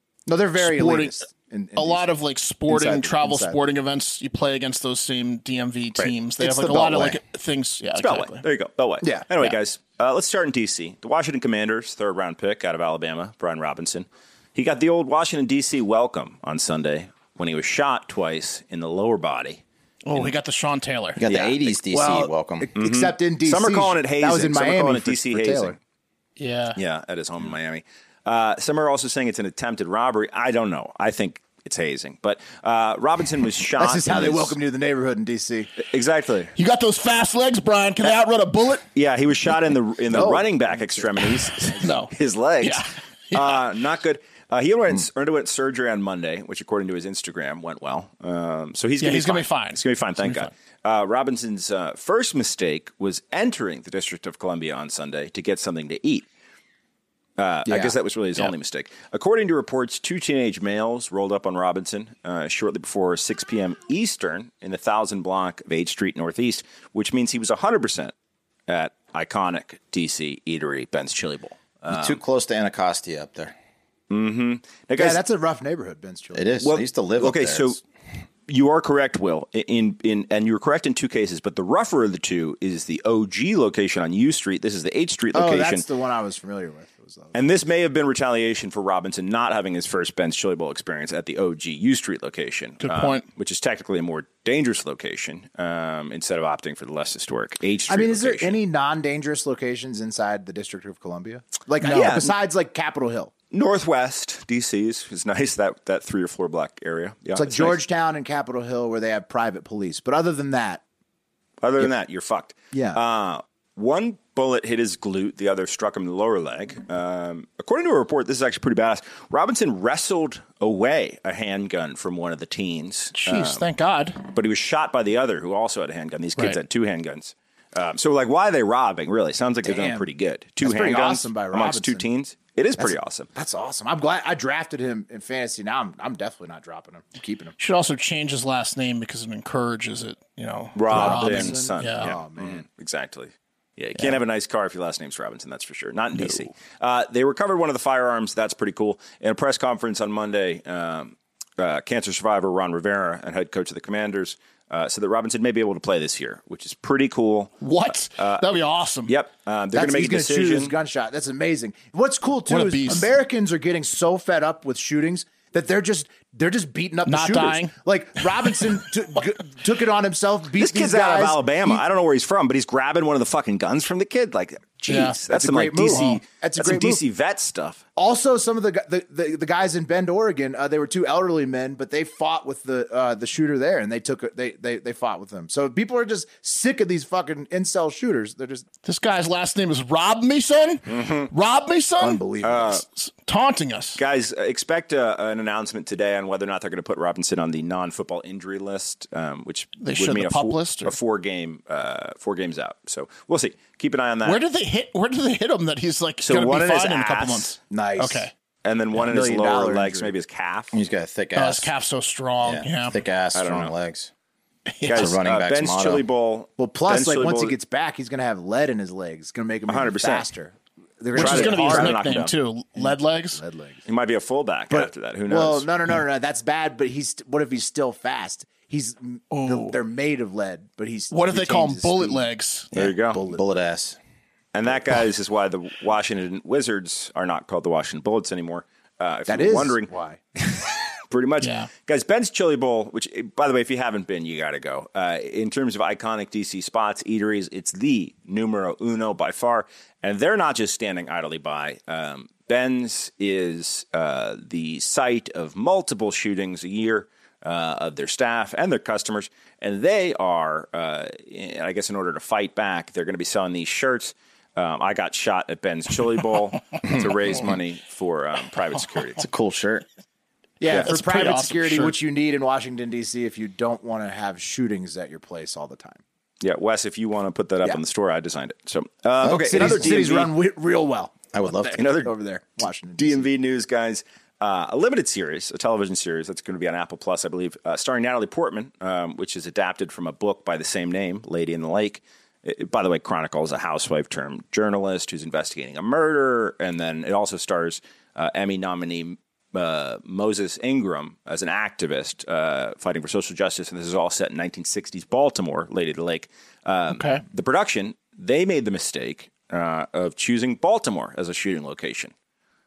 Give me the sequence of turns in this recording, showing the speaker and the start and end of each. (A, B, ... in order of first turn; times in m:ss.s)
0:00.3-0:02.1 A
0:00.6-0:01.2 B
0:01.8-0:08.4 B
0:02.7-0:03.6 A
0:06.4-0:07.2 C
0:08.0-0:19.6 D
0:20.1-0:21.2 B
0:21.2-0:22.7 C
0:21.3-0:21.6 D
0:21.9-0:25.8 A
0:22.8-0:25.8 D
0:26.4-0:26.8 B
0:26.8-0:34.6 D
0:33.8-0:35.7 A
0:35.8-0:36.5 D
0:36.6-0:38.8 B
0:39.0-0:56.3 D
0:40.1-0:41.9 A
0:41.8-0:43.6 B
0:49.0-0:50.5 B
0:57.4-1:08.1 D
1:08.7-1:12.2 D
1:11.9-1:13.5 C
1:14.1-1:15.2 D
1:15.0-1:16.6 A
1:16.3-1:17.8 C
1:16.6-1:17.8 D
1:18.5-1:25.9 D
1:25.3-1:27.4 A
1:27.3-1:38.6 D
1:32.8-1:33.2 B
1:37.9-1:43.3 A
1:41.8-1:42.4 D
1:43.5-1:47.8 D
1:47.4-1:50.8 A
1:51.6-2:03.7 D
1:52.7-1:53.0 A
2:03.1-2:04.2 B
2:04.2-2:13.3 D
2:09.6-2:10.1 A
2:10.6-2:12.0 A
2:12.8-2:17.6 A
2:17.6-2:22.1 B
2:20.8-2:38.4 D
2:20.9-2:22.6 A
2:37.6-2:39.1 B
2:39.1-2:40.8 D
2:39.7-2:51.8 A
2:42.5-2:43.1 B
2:47.1-2:47.7 B
2:50.6-2:57.8 D
2:54.9-2:55.2 B
2:55.3-2:57.0 A
2:58.0-3:08.7 A
3:08.8-3:12.2 B
3:10.9-3:11.3 D
3:12.0-3:12.8 A
3:12.4-3:12.8 D
3:12.9-3:14.0 B
3:14.0-3:24.4 D
3:19.8-3:20.9 B
3:24.2-3:28.3 B
3:26.2-3:27.6 D
3:27.7-3:28.3 A
3:28.6-3:30.8 D
3:29.0-3:30.1 A
3:30.7-3:31.7 C
3:31.4-3:33.0 B
3:32.4-3:34.1 C
3:33.3-3:33.7 D
3:34.7-3:35.2 B
3:34.8-3:37.6 D
3:34.9-3:36.0 C
3:36.6-3:42.1 A
3:39.7-3:40.3 D
3:41.1-3:43.4 B
3:41.2-3:42.4 D
3:42.8-3:43.8 A
3:43.9-3:45.7 D
3:44.7-3:52.3 A
3:49.3-3:49.8 B
3:51.1-3:52.7 B
3:52.7-3:54.0 C
3:52.8-3:53.2 D
3:53.2-3:53.4 A
3:54.5-3:59.9 D
3:59.3-4:00.2 A
4:01.1-4:29.2 D
4:01.4-4:01.7 B
4:26.9-4:27.6 C
4:29.2-4:29.8 C
4:30.6-4:36.0 A
4:30.7-4:32.0 B
4:36.4-4:40.3 D
4:39.2-4:40.0 C
4:39.2-4:43.3 A
4:41.3-4:41.8 C
4:41.8-4:42.1 D
4:43.0-5:12.1 D
5:06.9-5:07.2 B